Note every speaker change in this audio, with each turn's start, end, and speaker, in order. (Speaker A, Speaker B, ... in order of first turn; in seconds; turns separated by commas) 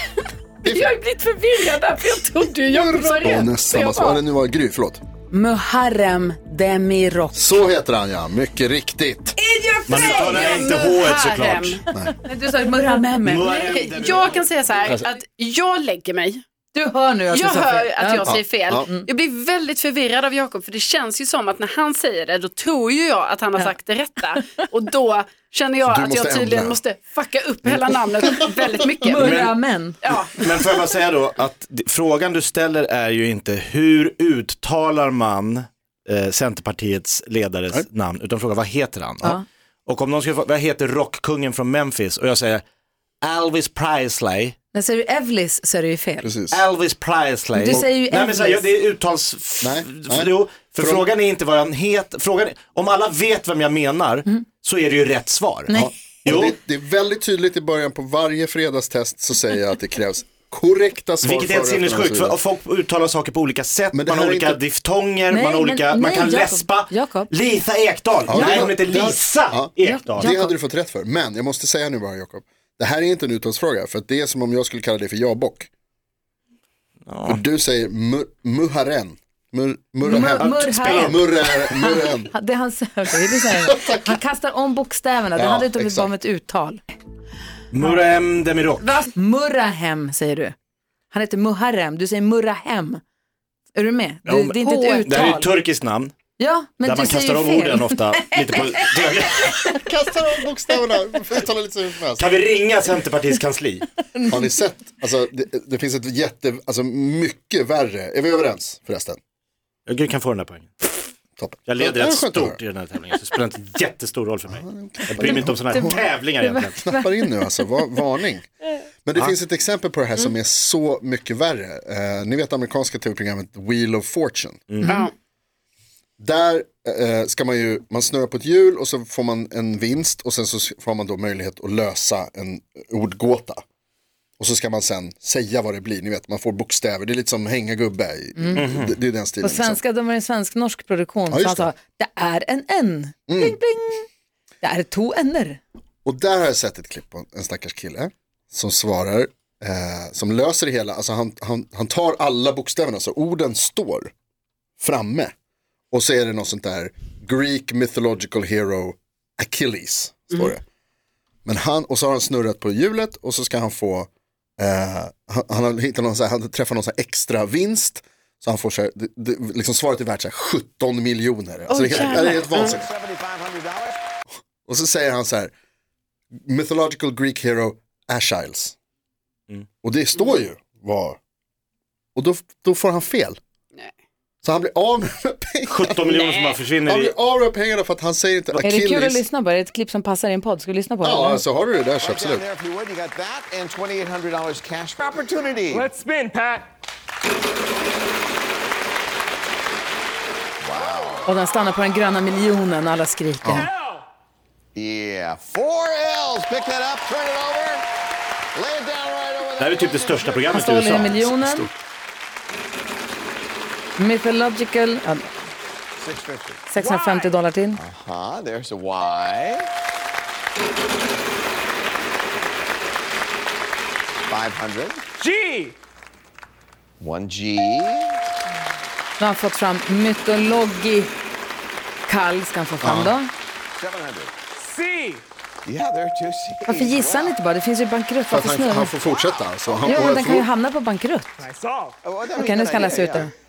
Speaker A: 0.6-0.9, Speaker B: 0.6-4.2, Speaker A: 3.2-5.0, Speaker C: 5.3-7.5, Speaker A: 7.3-9.4, Speaker C: 9.4-10.7, Speaker D: 9.9-11.8, Speaker B: 9.9-11.8, Speaker C: 11.9-13.8, Speaker B: 12.8-16.4, Speaker D: 13.2-15.1, Speaker C: 16.7-19.1, Speaker B: 17.3-29.4, Speaker A: 18.2-18.9, Speaker A: 25.9-26.8, Speaker C: 28.9-30.0, Speaker D: 29.1-29.5, Speaker B: 30.0-30.7, Speaker D: 30.1-42.6, Speaker D: 43.2-44.6, Speaker C: 44.7-46.3, Speaker A: 46.2-46.6, Speaker D: 46.5-55.7, Speaker C: 47.5-48.7, Speaker A: 49.6-51.1, Speaker A: 55.7-62.4, Speaker D: 56.2-56.6, Speaker D: 61.2-70.3, Speaker A: 63.9-64.6, Speaker C: 65.3-67.3, Speaker A: 68.3-75.7, Speaker C: 68.3-68.7, Speaker C: 69.8-70.6, Speaker D: 77.1-77.4, Speaker A: 77.3-82.3, Speaker C: 80.0-86.8, Speaker D: 80.3-81.2, Speaker A: 83.7-84.1, Speaker A: 85.3-86.1, Speaker D: 87.7-89.0, Speaker C: 88.8-90.5, Speaker C: 91.1-93.0, Speaker C: 93.7-95.5, Speaker D: 94.3-96.1, Speaker C: 96.4-99.7, Speaker D: 96.8-99.6, Speaker A: 99.6-102.3, Speaker D: 102.2-103.9, Speaker A: 104.3-109.2, Speaker D: 109.9-110.9, Speaker A: 111.4-112.6, Speaker D: 111.7-116.8, Speaker A: 114.5-116.1, Speaker C: 115.3-117.7, Speaker A: 116.8-118.5, Speaker A: 119.0-124.7, Speaker D: 124.7-125.0, Speaker C: 124.8-125.1, Speaker B: 124.8-125.1, Speaker A: 126.2-133.6, Speaker A: 134.4-139.8, Speaker C: 138.4-138.7, Speaker D: 138.6-138.9, Speaker C: 139.4-144.1, Speaker A: 141.3-141.7, Speaker A: 143.3-143.6, Speaker C: 144.6-145.6, Speaker A: 146.1-154.1, Speaker A: 154.8-155.3, Speaker A: 155.9-160.6, Speaker A: 161.5-172.9, Speaker B: 171.7-172.8, Speaker E: 172.6-174.0, Speaker A: 174.7-175.5, Speaker A: 176.4-178.8, Speaker A: 179.8-181.2, Speaker A: 182.2-183.4, Speaker A: 184.4-186.2, Speaker D: 185.7-187.1, Speaker B: 186.1-186.6, Speaker A: 186.9-189.2, Speaker C: 188.6-191.4, Speaker A: 191.0-192.5, Speaker E: 192.0-195.9, Speaker F: 195.0-196.7, Speaker E: 200.6-201.3, Speaker C: 201.3-203.7, Speaker F: 203.6-204.0, Speaker E: 204.8-207.8, Speaker E: 208.5-211.3, Speaker D: 209.6-211.2, Speaker C: 210.5-211.7, Speaker A: 211.3-211.7, Speaker C: 214.0-215.3, Speaker E: 216.0-216.6, Speaker C: 216.7-217.8, Speaker F: 216.8-217.4, Speaker E: 217.8-219.7, Speaker E: 224.3-225.0, Speaker F: 225.2-225.8, Speaker E: 227.0-228.2, Speaker C: 229.2-231.1, Speaker C: 232.1-233.3, Speaker A: 232.8-233.2, Speaker E: 233.7-234.3, Speaker F: 234.6-235.2, Speaker E: 235.7-237.3, Speaker C: 236.7-239.0, Speaker A: 238.3-240.5, Speaker E: 239.0-240.2, Speaker C: 239.9-241.3, Speaker F: 241.4-242.0, Speaker E: 242.0-243.3, Speaker C: 242.4-243.3